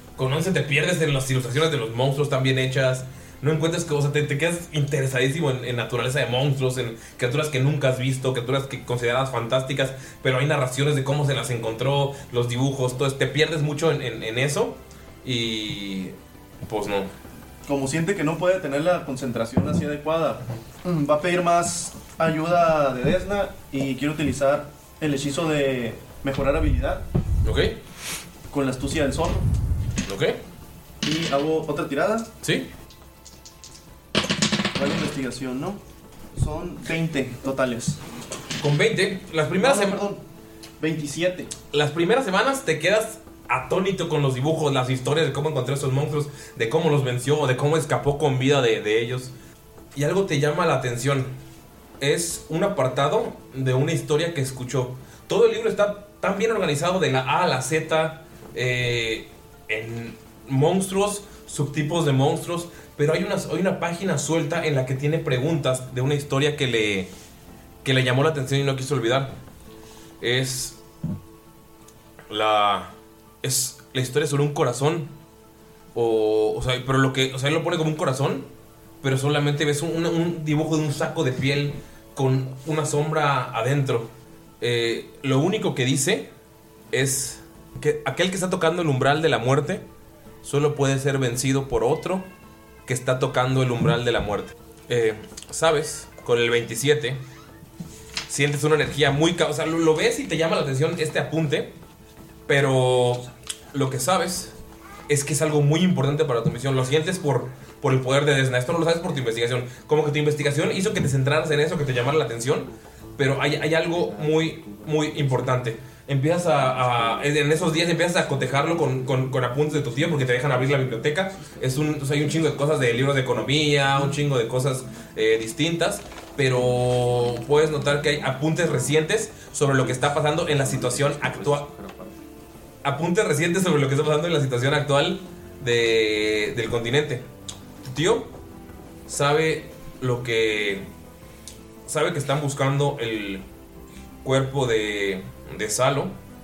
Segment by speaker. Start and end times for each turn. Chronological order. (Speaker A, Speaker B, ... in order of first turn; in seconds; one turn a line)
Speaker A: 0.2-17.1
Speaker B: 17.7-27.1
Speaker A: 27.4-27.8
Speaker B: 28.5-29.5
Speaker A: 30.1-30.4
Speaker B: 31.0-32.3
Speaker A: 32.4-32.7
Speaker B: 34.7-35.8
Speaker B: 36.4-38.0
Speaker A: 38.6-40.0
Speaker B: 39.6-40.2
Speaker B: 40.8-41.5
Speaker A: 41.7-49.3
Speaker A: 50.0-51.3
Speaker A: 52.0-67.1
Speaker A: 67.8-69.3
Speaker A: 70.2-70.8
Speaker A: 72.3-72.9
Speaker A: 73.4-75.1
Speaker A: 76.0-78.5
Speaker A: 79.0-86.3
Speaker A: 86.9-89.8
Speaker A: 90.4-92.3
Speaker A: 92.9-97.2
Speaker A: 98.3-101.8
Speaker A: 102.5-104.5
Speaker A: 105.1-131.8
Speaker A: 132.8-137.3
Speaker A: 137.9-138.3
Speaker A: 139.1-140.9
Speaker A: 141.9-143.4
Speaker A: 144.2-146.2